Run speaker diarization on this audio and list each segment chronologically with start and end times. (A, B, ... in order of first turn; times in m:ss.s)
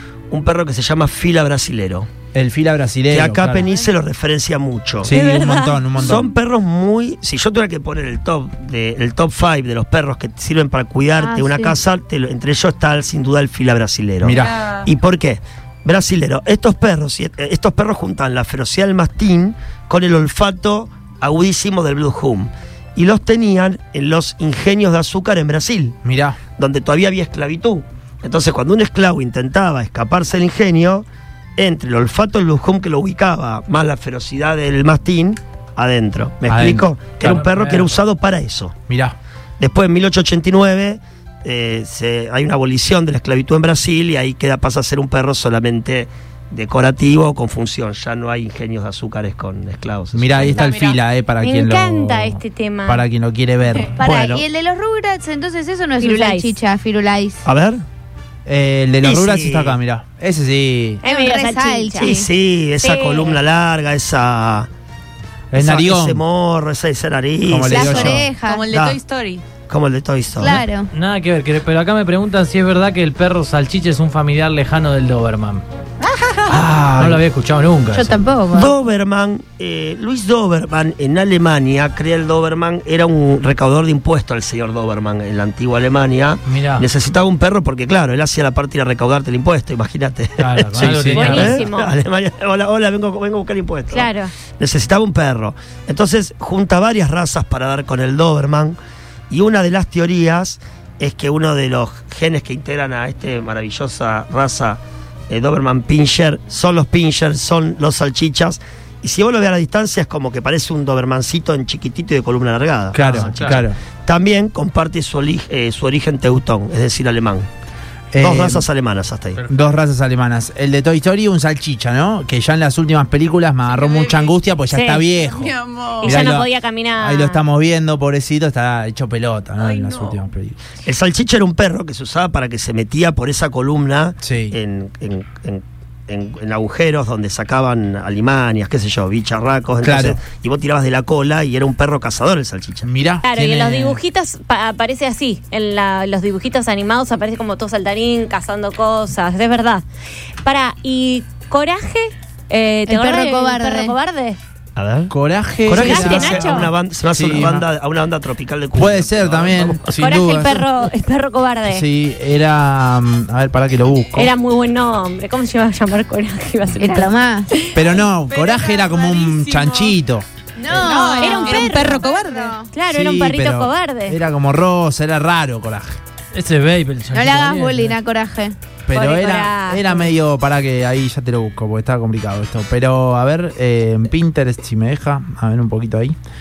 0:00.3-0:02.1 A
0:02.3-0:03.7 B
0:03.1-0:05.1 A
0:05.0-0:06.3 B
0:05.0-0:05.9 C
0:06.0-0:26.0 A
0:11.2-0:11.7 D
0:14.2-0:14.6 B
0:14.3-0:14.9 E
0:26.0-0:26.4 B
0:26.6-0:31.0 A
0:31.6-0:38.7 A
0:36.5-0:37.4 B
0:37.2-0:38.0 F
0:38.9-0:39.1 B
0:39.6-0:50.7 A
0:50.1-0:53.9 B
0:50.5-0:51.0 E
0:51.4-0:53.0 C
0:54.0-0:57.4 D
0:54.0-0:54.4 A
0:56.0-0:56.6 C
0:57.4-0:57.8 A
0:58.4-1:01.0 B
0:59.0-0:59.8 A
1:01.0-1:02.2 C
1:01.0-1:02.2 D
1:02.0-1:04.7 A
1:02.8-1:03.4 C
1:05.5-1:06.2 B
1:05.5-1:09.0 A
1:07.5-1:08.3 B
1:07.7-1:08.6 D
1:08.4-1:09.4 E
1:09.7-1:10.6 A
1:10.4-1:10.9 D
1:10.9-1:15.6 F
1:16.0-1:16.6 E
1:16.5-1:17.2 B
1:16.8-1:18.2 F
1:17.9-1:18.7 D
1:18.5-1:38.8 A
1:26.4-1:26.9 F
1:30.4-1:31.6 F
1:30.8-1:31.5 B
1:31.1-1:31.9 C
1:33.9-1:34.3 C
1:39.3-1:57.5 A
1:52.9-1:53.8 B
1:53.0-1:53.6 F
1:58.1-1:58.6 B
1:58.2-1:59.4 A
1:59.5-2:10.6 B
2:03.7-2:04.4 E
2:04.7-2:05.0 C
2:05.1-2:06.2 E
2:06.0-2:07.4 C
2:09.6-2:10.2 E
2:10.8-2:22.9 A
2:14.2-2:14.6 B
2:19.8-2:20.2 B
2:22.8-2:24.0 B
2:23.2-2:29.8 C
2:30.4-2:34.4 C
2:32.9-2:34.0 D
2:34.8-2:35.1 A
2:35.1-2:37.6 B
2:35.7-2:40.0 A
2:35.7-2:36.7 C
2:38.7-2:40.7 B
2:39.9-2:41.8 C
2:41.7-2:44.3 B
2:44.1-2:47.8 C
2:46.8-2:47.5 D
2:47.7-2:50.2 B
2:48.3-2:49.9 E
2:50.6-2:52.7 D
2:50.7-2:52.6 E
2:51.0-2:52.0 C
2:52.7-2:54.2 C
2:52.9-2:56.0 B
2:56.3-2:58.0 F
2:57.1-2:58.6 D
2:58.9-3:06.1 B
2:58.9-3:00.0 C